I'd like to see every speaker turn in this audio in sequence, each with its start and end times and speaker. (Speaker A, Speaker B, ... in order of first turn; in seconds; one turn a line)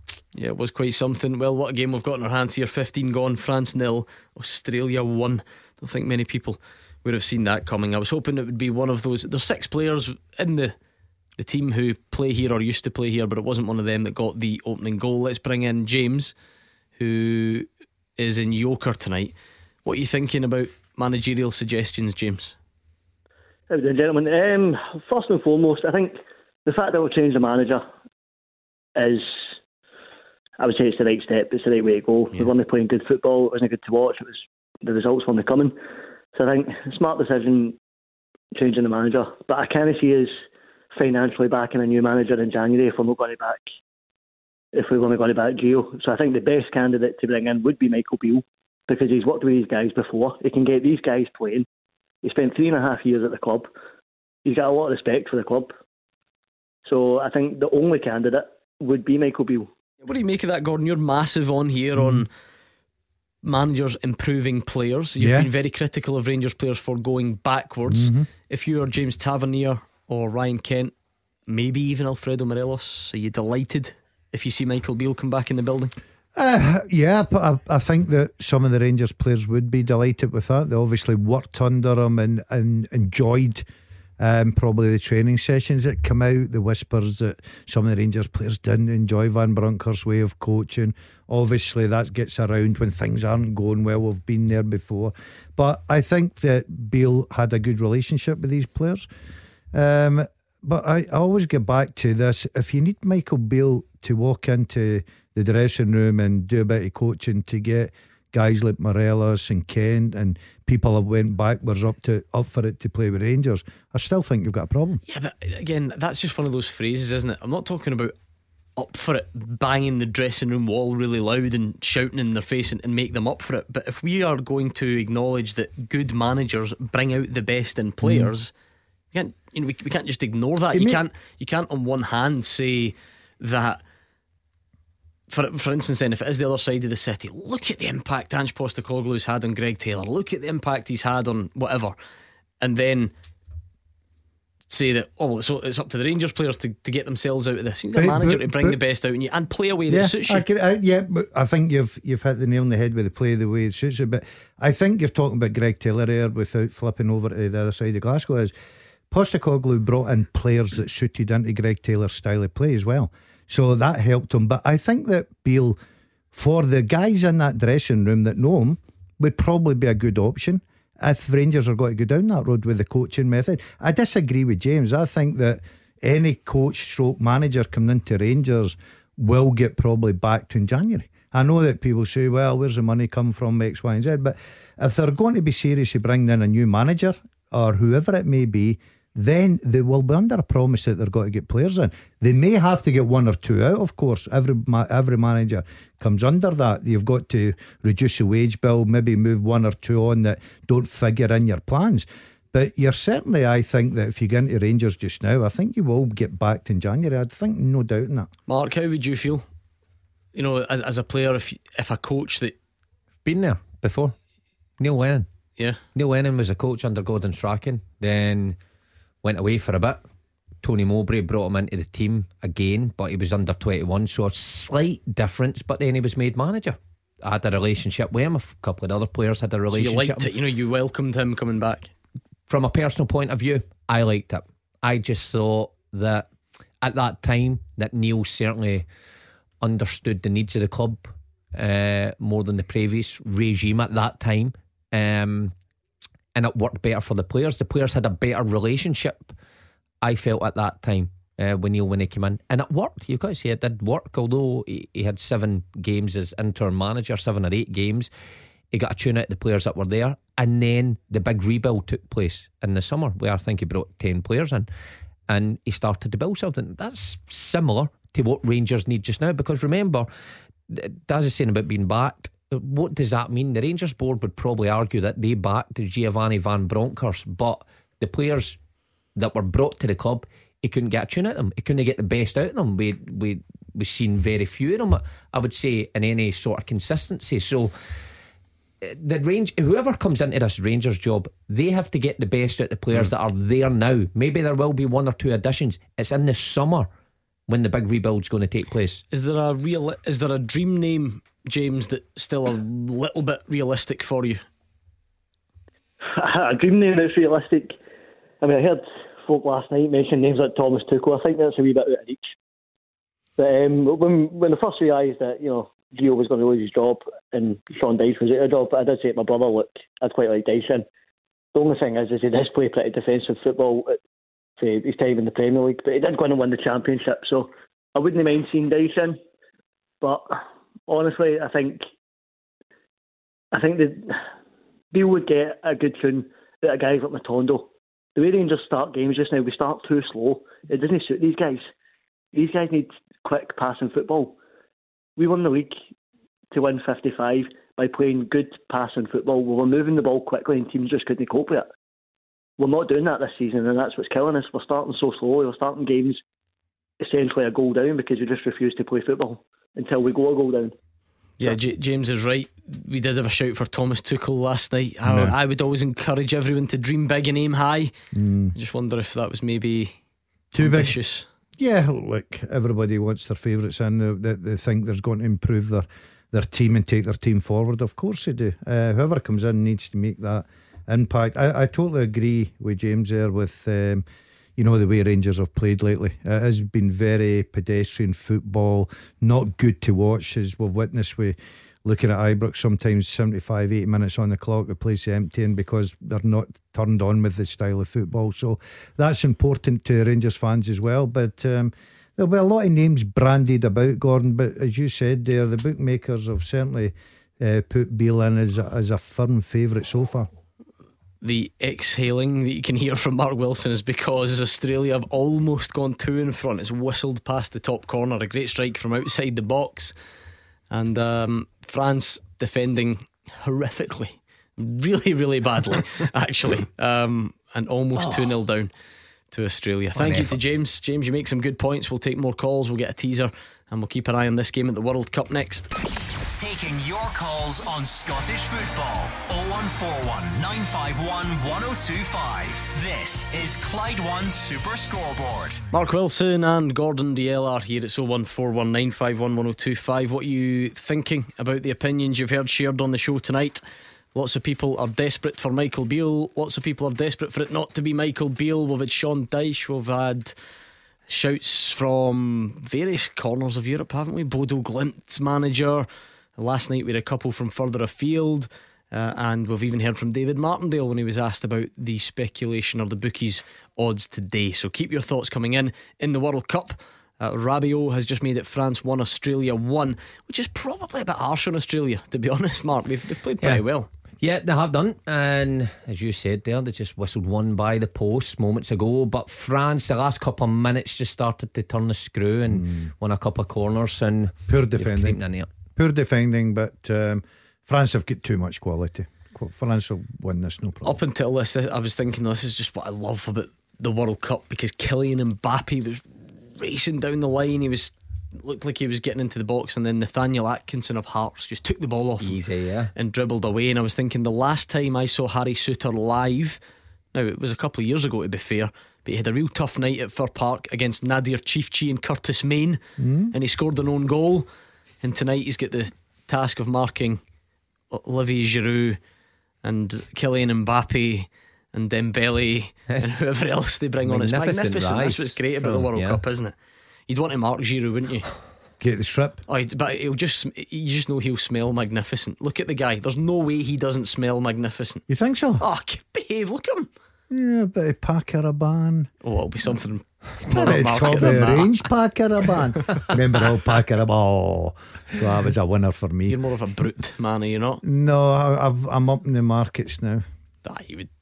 Speaker A: 0.3-10.8
Speaker A: 11.4-16.3
Speaker A: 17.0-22.6
Speaker B: 23.7-27.9
Speaker B: 29.0-29.5
Speaker B: 30.6-35.8
Speaker B: 36.4-37.8
Speaker B: 38.5-40.3
Speaker B: 40.9-43.7
Speaker B: 44.7-51.6
Speaker B: 52.2-53.7
Speaker B: 54.5-55.7
Speaker B: 56.9-59.7
Speaker A: 60.0-62.3
Speaker C: 62.0-62.2
Speaker A: 63.4-70.9
Speaker C: 65.2-65.5
Speaker C: 67.9-68.3
Speaker A: 71.5-76.0
Speaker C: 76.3-83.7
Speaker C: 84.2-99.1
Speaker C: 99.7-115.0
Speaker A: 115.1-118.1
Speaker A: 118.8-128.5
Speaker C: 128.0-128.3
Speaker A: 129.1-133.8
Speaker C: 130.7-131.0
Speaker A: 135.3-142.0
Speaker A: 142.6-143.1
Speaker A: 144.7-150.5
Speaker C: 148.0-148.8
Speaker C: 149.9-158.5
Speaker C: 159.1-165.8
Speaker C: 166.3-208.3
Speaker A: 208.5-209.5
Speaker A: 210.3-212.6
Speaker D: 213.2-214.1
Speaker D: 214.8-215.3
Speaker D: 215.9-218.6
Speaker D: 219.2-220.0
Speaker D: 220.6-230.3
Speaker A: 229.7-231.9
Speaker D: 232.5-236.3
Speaker D: 236.8-238.8
Speaker D: 239.6-245.5
Speaker D: 246.3-249.3
Speaker D: 250.0-258.1
Speaker D: 258.7-264.7
Speaker D: 265.3-270.1
Speaker D: 270.7-278.6
Speaker D: 279.2-287.7
Speaker D: 288.8-296.9
Speaker D: 297.5-299.0
Speaker A: 299.1-304.4
Speaker B: 306.1-307.8
Speaker B: 308.4-312.3
Speaker B: 313.4-320.9
Speaker B: 321.5-323.9
Speaker B: 324.6-329.2
Speaker B: 330.0-330.4
Speaker B: 330.9-331.8
Speaker B: 333.5-334.1
Speaker B: 334.9-341.7
Speaker B: 342.3-344.4
Speaker B: 345.2-345.8
Speaker B: 346.5-351.7
Speaker B: 352.6-356.2
Speaker B: 357.0-360.7
Speaker A: 361.4-367.9
Speaker C: 365.1-365.3
Speaker C: 368.1-368.5
Speaker A: 368.5-370.0
Speaker C: 370.5-371.0
Speaker A: 370.6-371.3
Speaker C: 371.6-384.1
Speaker C: 384.6-410.3
Speaker A: 411.2-419.9
Speaker A: 420.7-428.7
Speaker A: 429.3-435.7
Speaker D: 429.9-430.4
Speaker E: 436.3-445.6
Speaker A: 445.7-460.4
Speaker A: 461.1-483.9
Speaker D: 484.2-495.5
Speaker C: 492.5-492.9
Speaker C: 494.5-495.2
Speaker C: 495.8-501.0
Speaker A: 500.8-512.4
Speaker D: 512.2-512.9
Speaker A: 513.0-516.6
Speaker A: 517.1-522.8
Speaker C: 523.0-523.3
Speaker A: 523.3-524.5
Speaker A: 525.0-527.2
Speaker A: 527.9-529.0
Speaker A: 529.6-536.5
Speaker D: 532.9-533.2
Speaker D: 534.0-536.2
Speaker A: 537.1-538.3
Speaker C: 538.8-539.4
Speaker A: 539.5-545.0
Speaker C: 545.1-545.6
Speaker A: 545.6-546.9
Speaker C: 547.3-549.1
Speaker A: 549.2-551.9
Speaker C: 550.5-556.4
Speaker A: 556.3-557.8
Speaker C: 557.8-560.2
Speaker A: 560.6-561.1